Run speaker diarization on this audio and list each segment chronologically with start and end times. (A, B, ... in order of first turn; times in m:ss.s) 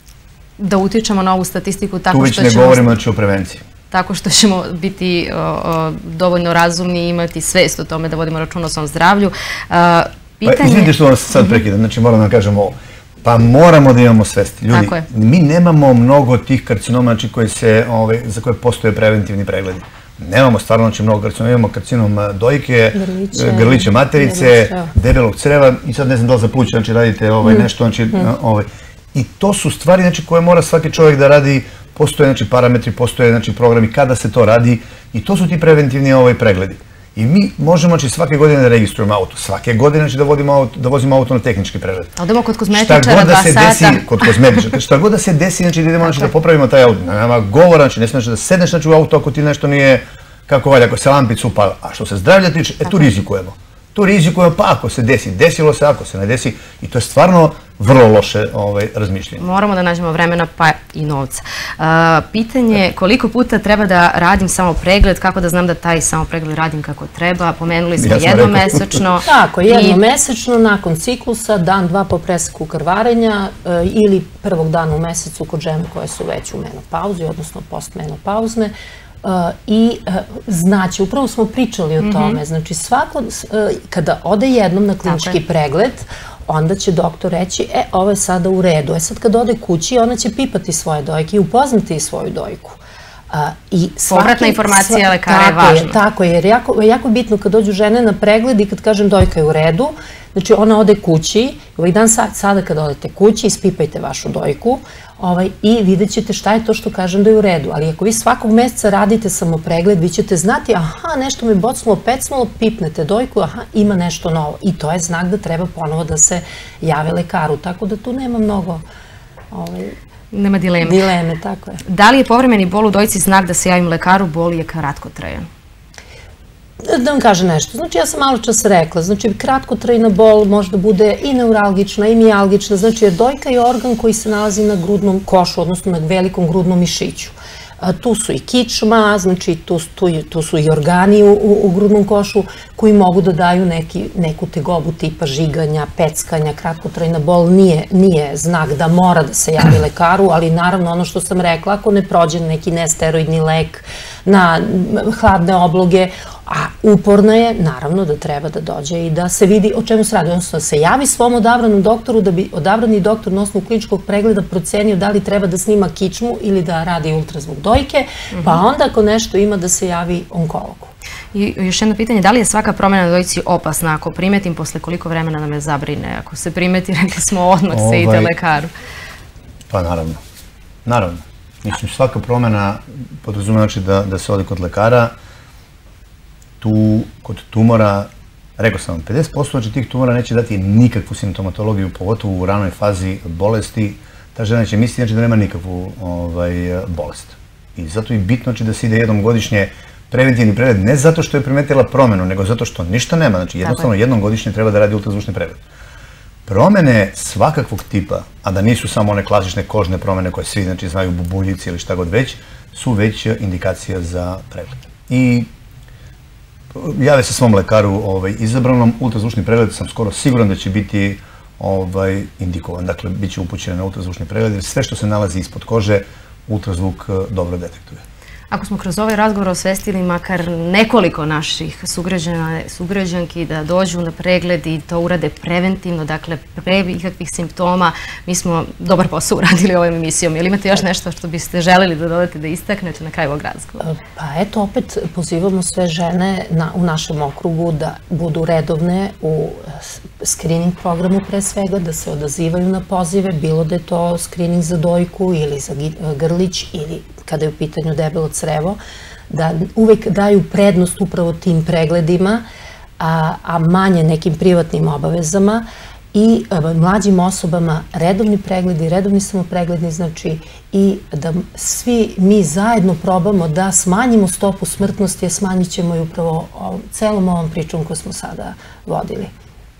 0:00.6-0:03.0 A
0:02.1-0:03.6 B
0:03.9-0:10.9 A
0:10.4-0:42.1 B
0:14.7-0:15.0 A
0:22.9-0:24.9 C
0:42.2-0:44.3 A
0:42.7-0:59.4 B
0:59.4-1:10.0 A
1:08.0-1:09.0 B
1:09.2-1:32.8 C
1:22.0-1:22.4 A
1:25.1-1:25.4 A
1:33.3-1:58.8 C
1:34.1-1:35.9 A
1:59.5-2:00.0 C
2:00.3-2:01.0 A
2:00.8-2:01.8 C
2:01.8-2:05.5 A
2:06.8-2:50.9 C
2:48.3-2:48.6 A
2:51.3-2:58.7 A
2:57.7-2:58.3 B
2:59.7-3:00.2 B
3:00.8-3:05.1 B
3:06.6-3:25.6 B
3:26.4-3:35.5 B
3:36.7-3:48.0 B
3:48.5-4:03.8 A
4:03.8-4:22.4 C
4:23.0-4:39.3 C